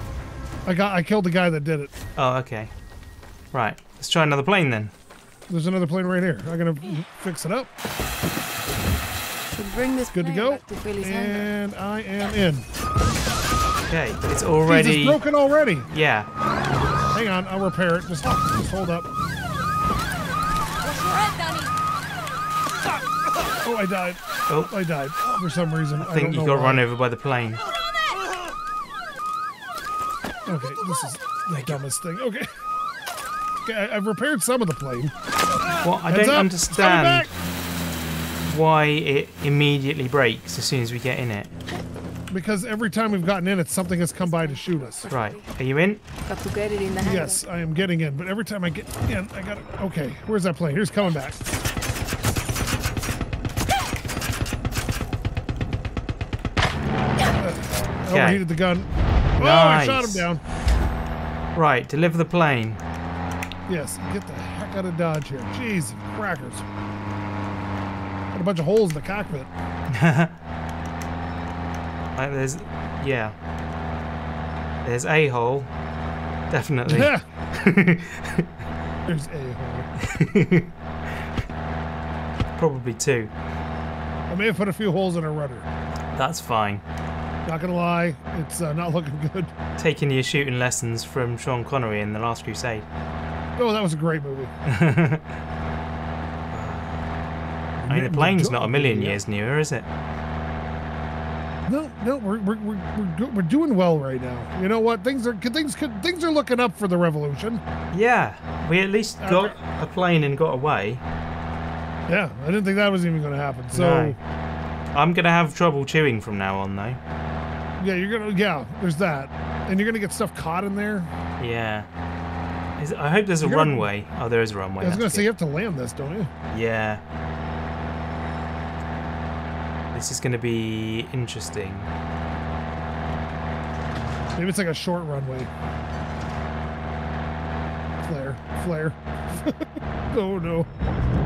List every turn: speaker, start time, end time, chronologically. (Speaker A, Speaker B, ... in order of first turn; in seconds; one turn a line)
Speaker A: 0.6-1.9
Speaker B: 2.1-2.7
Speaker B: 3.5-4.9
Speaker A: 5.5-7.7
Speaker C: 9.5-11.5
Speaker A: 10.1-12.7
Speaker B: 13.9-15.2
Speaker A: 14.6-15.9
Speaker B: 15.9-16.3
Speaker A: 17.1-19.1
Speaker C: 20.8-21.7
Speaker A: 23.6-26.8
Speaker B: 26.0-27.6
Speaker A: 30.4-32.5
Speaker B: 31.5-31.8
Speaker A: 33.6-35.1
Speaker B: 35.8-37.3
Speaker A: 36.1-37.3
Speaker B: 38.5-41.5
Speaker A: 42.3-45.1
Speaker C: 44.2-45.5
Speaker B: 45.1-46.0
Speaker C: 46.2-47.4
Speaker A: 47.0-51.4
Speaker A: 57.4-60.4
Speaker B: 58.1-58.4
Speaker B: 59.4-60.2
Speaker B: 61.5-62.8
Speaker A: 63.7-66.6
Speaker A: 68.3-69.5
Speaker B: 69.9-70.3
Speaker B: 72.2-73.3
Speaker B: 74.8-75.7
Speaker B: 76.5-78.5
Speaker A: 76.9-77.2
Speaker A: 79.0-79.9
Speaker B: 80.0-80.7
Speaker B: 82.6-83.3
Speaker A: 84.3-85.7
Speaker B: 86.1-86.8
Speaker A: 87.4-89.5
Speaker B: 89.8-92.9
Speaker A: 93.6-94.5
Speaker B: 94.7-95.4
Speaker B: 96.5-97.0
Speaker B: 97.8-99.9
Speaker A: 97.9-99.2
Speaker A: 101.7-107.6
Speaker B: 107.9-111.0
Speaker A: 109.2-109.5
Speaker A: 112.1-114.2
Speaker B: 113.7-114.2
Speaker B: 114.9-117.0
Speaker A: 117.8-121.1
Speaker B: 121.4-121.9
Speaker B: 122.8-125.3
Speaker A: 123.4-123.9
Speaker A: 124.8-126.3
Speaker B: 126.5-127.0
Speaker B: 129.9-131.9
Speaker A: 134.3-135.5
Speaker A: 138.1-140.7